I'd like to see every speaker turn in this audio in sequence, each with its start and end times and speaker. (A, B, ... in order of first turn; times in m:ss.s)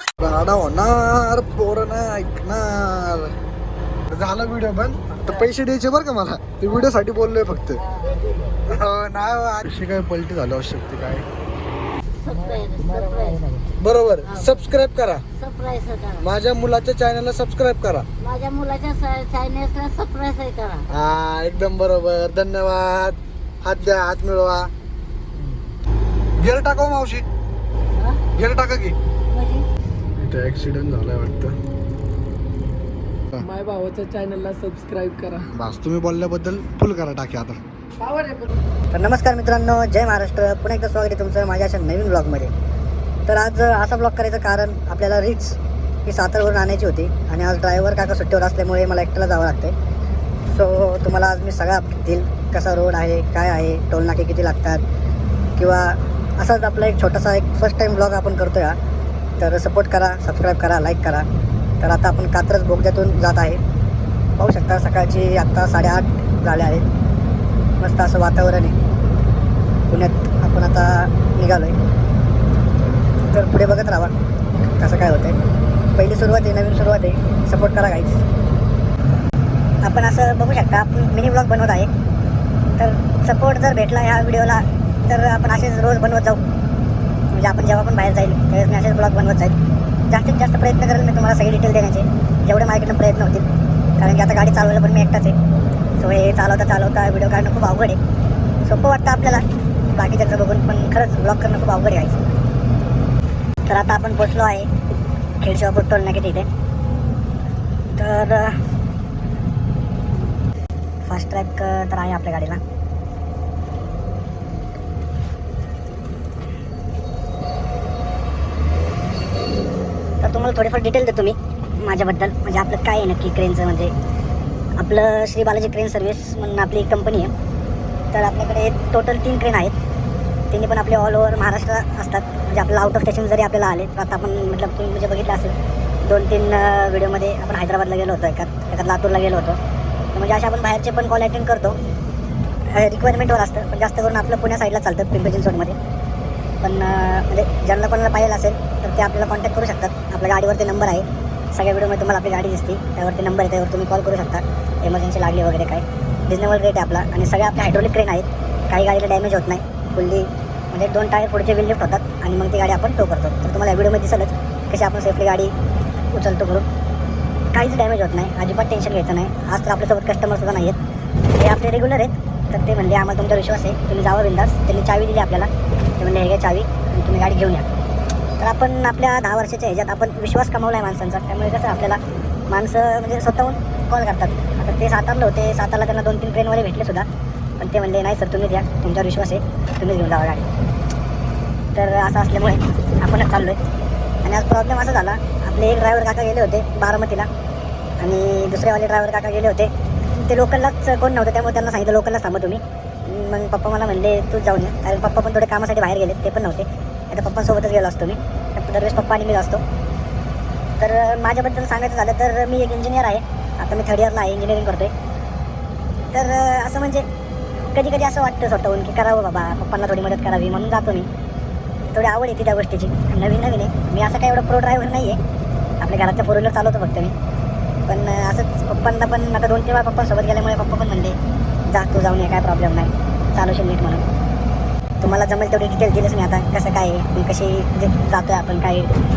0:00.2-0:03.4 A
0:04.1-0:07.8 A
0:08.0-0:08.4 B
0:08.7-0:11.3 A
0:12.2-0:13.6 B
0:12.6-0:13.4 C
0:13.8-0:15.2 A
0:14.2-0:14.7 B
0:15.3-0:16.3 B
0:16.2-0:18.1 A
0:18.2-0:20.9 B
0:20.9-0:24.7 A
0:26.4-0:27.2 A
0:28.4-0:29.0 A
0:29.3-0:29.7 B
0:30.2-0:31.6 A
0:33.4-0:35.5 C
0:35.6-0:37.6 A
0:38.0-0:38.5 C
0:38.9-0:42.5 D
0:43.3-0:49.8 D
0:50.5-0:54.8 D
0:55.6-0:58.8 D
0:59.4-1:01.3 D
1:01.8-1:03.6 D
1:04.4-1:06.8 D
1:07.8-1:08.8 D
1:09.9-1:11.8 D
1:13.3-1:14.1 D
1:14.8-1:15.4 D
1:16.0-1:18.2 D
1:19.8-1:21.9 D
1:22.7-1:26.4 D
1:27.3-1:29.6 D
1:30.1-1:33.5 D
1:34.0-1:35.4 D
1:36.0-1:38.0 D
1:38.6-1:42.3 D
1:43.7-1:44.7 D
1:45.4-1:46.5 D
1:48.0-1:48.6 D
1:51.1-1:52.6 D
2:00.2-2:03.9 D
2:04.8-2:07.3 D
2:08.1-2:09.8 D
2:10.5-2:19.6 D
2:20.1-2:21.8 D
2:22.7-2:25.8 D
2:26.6-2:45.5 D
2:46.1-2:46.7 D
2:47.5-2:50.8 D
2:51.3-2:57.7 D
2:58.4-3:07.1 D
3:07.6-3:10.5 D
3:11.8-3:13.6 D
3:14.2-3:17.3 D
3:18.0-3:29.6 D
3:30.8-3:34.9 D
3:36.1-3:37.1 D
3:37.7-3:41.1 D
3:41.9-3:45.2 D
3:45.8-3:47.2 D
3:47.9-3:54.0 D
3:55.0-3:58.9 D